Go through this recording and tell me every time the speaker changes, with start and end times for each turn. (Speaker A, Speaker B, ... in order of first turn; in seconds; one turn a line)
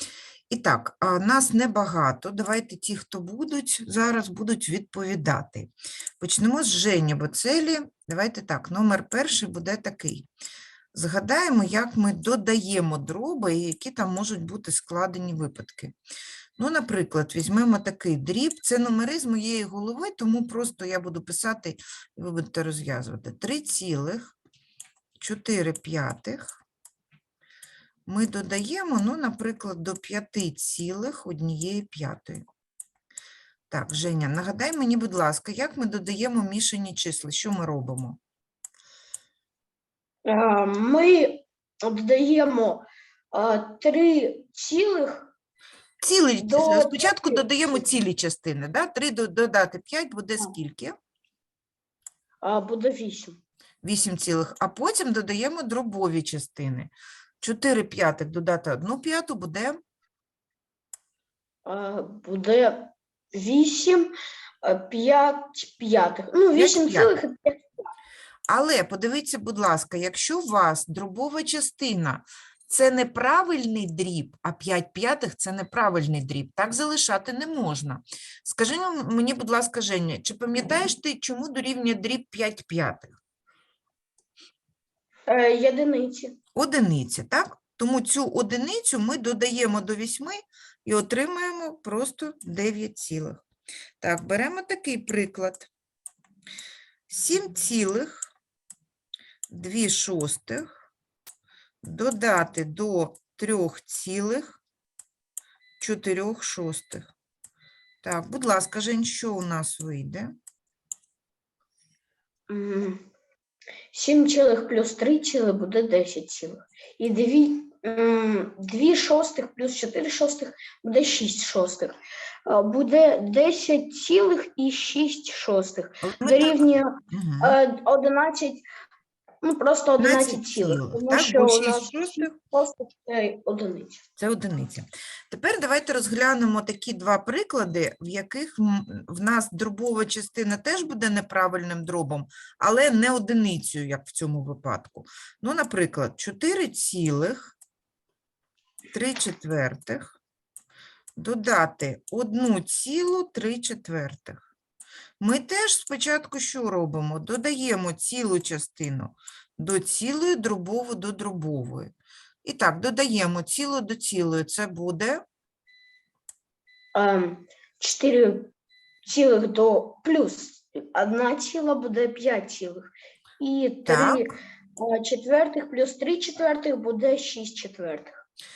Speaker A: 0.5-10.3
Speaker A: 10.9-15.9
Speaker A: 16.6-24.4
Speaker A: 25.2-26.6
Speaker A: 28.1-32.4
Speaker A: 33.7-38.2
Speaker B: 40.2-45.3
Speaker A: 46.0-51.0
Speaker B: 46.4-47.9
Speaker B: 52.4-53.4
Speaker A: 53.8-59.8
Speaker B: 61.6-67.6
Speaker A: 66.5-67.1
Speaker A: 68.5-83.2
Speaker B: 85.3-86.4
Speaker A: 86.5-93.4
Speaker A: 94.0-95.7
Speaker A: 97.1-98.3
Speaker A: 99.5-100.7
Speaker A: 101.8-104.6
Speaker A: 105.8-107.1
Speaker A: 108.0-110.3
Speaker B: 112.5-113.0
Speaker B: 113.9-128.6
Speaker A: 126.0-127.6
Speaker B: 129.4-134.0
Speaker A: 130.0-132.3
Speaker A: 134.2-147.6
Speaker A: 148.9-150.1
Speaker A: 151.2-154.4
Speaker A: 155.2-161.9
Speaker A: 162.4-165.2
Speaker B: 166.9-168.5
Speaker B: 169.1-178.1
Speaker A: 173.8-174.3